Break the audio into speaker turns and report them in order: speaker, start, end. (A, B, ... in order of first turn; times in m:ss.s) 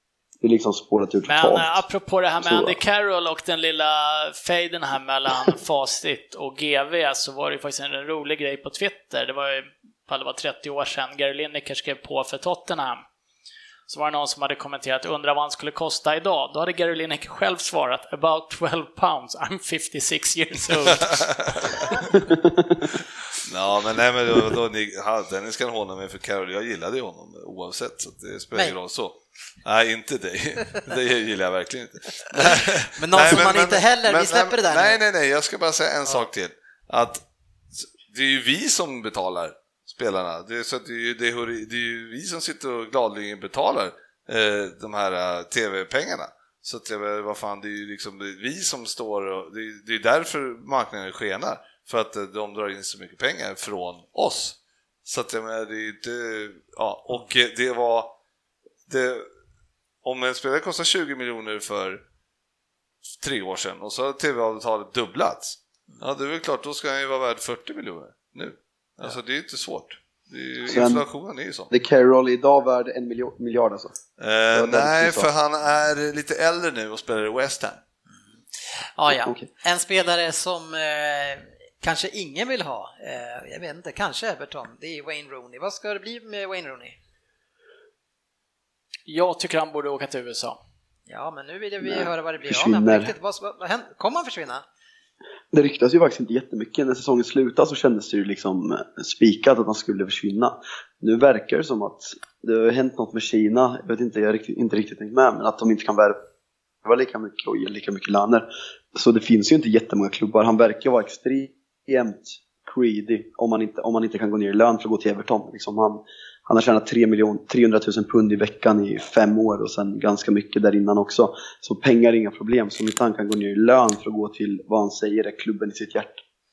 0:00.4-0:01.8 A
0:01.3-0:13.0 B
0:02.4-0:02.8 A
0:13.9-0:21.9 B
0:21.0-0:22.2 C
0:23.0-0:58.2 C
0:32.9-0:35.0 D
0:58.9-0:59.3 C
1:00.0-1:02.0 C
1:03.2-1:11.7 C
1:10.7-1:11.0 A
1:11.7-1:14.0 A
1:14.2-1:17.8 C
1:14.5-1:15.3 A
1:18.6-1:27.0 D
1:29.1-1:30.6 B
1:31.1-1:34.6 D
1:31.8-1:33.1 A
1:35.5-1:46.2 A
1:46.8-2:06.2 A